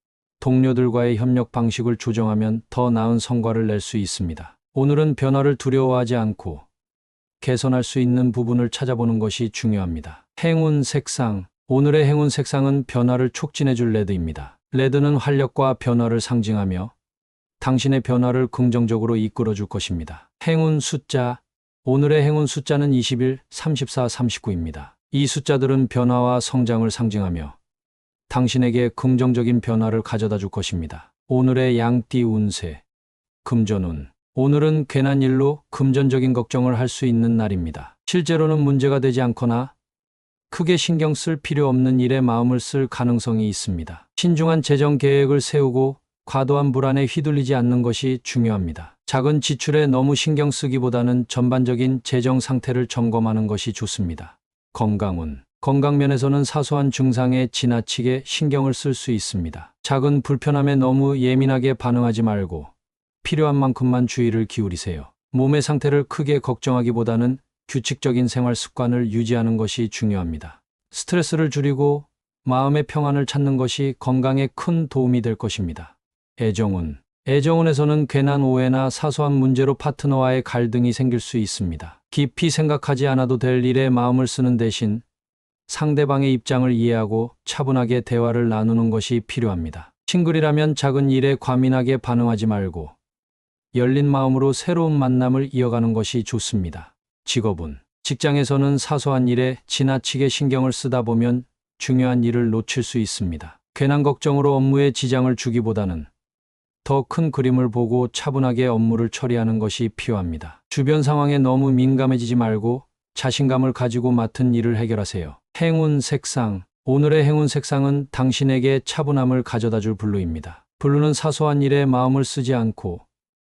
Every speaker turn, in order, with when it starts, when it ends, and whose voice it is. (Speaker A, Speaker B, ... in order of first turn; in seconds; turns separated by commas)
Speaker A: 0.4-6.7, Speaker A: 7.4-16.9, Speaker A: 17.6-27.6, Speaker A: 28.3-32.8, Speaker A: 33.4-39.7, Speaker A: 40.5-62.7, Speaker A: 63.2-85.0, Speaker A: 85.7-92.9, Speaker A: 93.7-106.1, Speaker A: 106.8-123.0